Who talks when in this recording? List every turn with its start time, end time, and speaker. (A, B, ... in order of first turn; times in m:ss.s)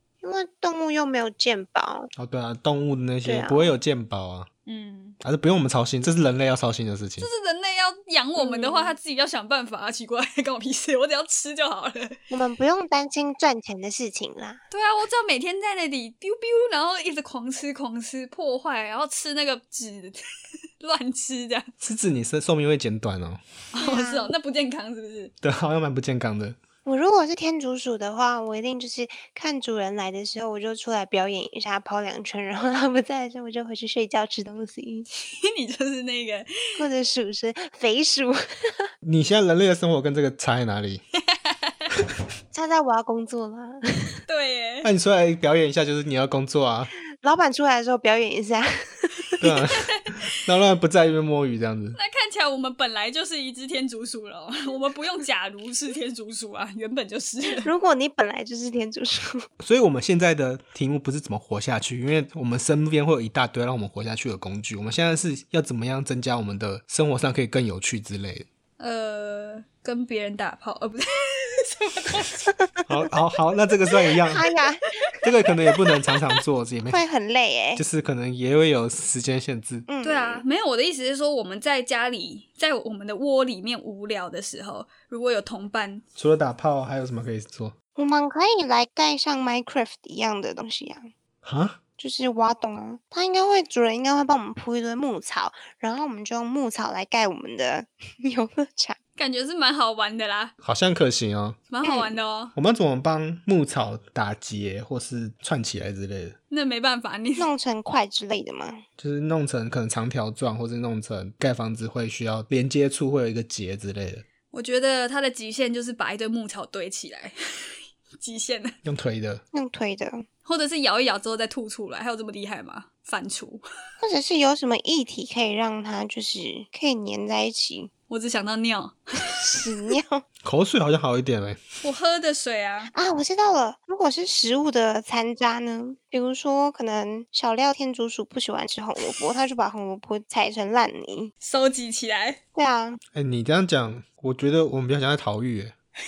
0:00.2-0:02.1 A
0:02.2-0:04.5 B
0:03.2-0:03.8 A
0:04.7-0:05.2 C
0:05.2-0:07.3 B
0:07.2-0:12.2 C
0:08.4-0:09.0 A
0:12.3-0:14.6 A
0:14.7-0:20.2 C
0:20.8-0:21.7 C
0:21.8-0:23.4 B
0:23.8-0:25.3 C
0:23.8-0:24.3 A
0:25.4-0:26.6 B
0:26.9-0:35.1 A
0:35.4-0:36.5 C
0:36.8-0:38.9 A
0:39.0-0:41.0 B
0:41.4-0:41.8 C
0:42.5-0:44.2 A
0:44.3-0:44.9 C
0:44.8-0:46.9 B
0:47.2-0:49.4 A
0:49.4-0:52.0 B
0:49.9-0:50.2 C
0:52.0-0:57.7 C
0:57.6-0:59.4 A
0:59.6-1:08.5 B
1:08.8-1:12.5 C
1:12.9-1:14.4 B
1:14.3-1:15.0 A
1:15.2-1:17.0 B
1:16.9-1:17.8 A
1:17.8-1:19.9 B
1:19.9-1:20.4 A
1:20.0-1:26.0 C
1:26.2-1:27.7 B
1:28.0-1:31.1 A
1:31.4-1:31.8 B
1:32.0-1:39.0 A
1:39.2-1:40.5 C
1:40.6-1:41.6 B
1:41.7-1:42.5 C
1:41.8-1:42.2 A
1:42.6-1:46.4 B
1:46.5-1:47.5 C
1:47.4-1:48.8 A
1:49.0-1:54.2 B
1:54.5-1:57.3 C
1:58.2-1:58.8 C
1:58.8-1:59.4 B
1:59.5-2:00.3 A
2:00.4-2:03.6 C
2:04.0-2:07.9 A
2:08.1-2:09.3 C
2:09.4-2:10.2 A
2:10.4-2:11.6 B
2:11.8-2:12.9 C
2:12.9-2:21.3 A
2:21.4-2:22.4 C
2:22.6-2:23.0 A
2:23.1-2:25.7 B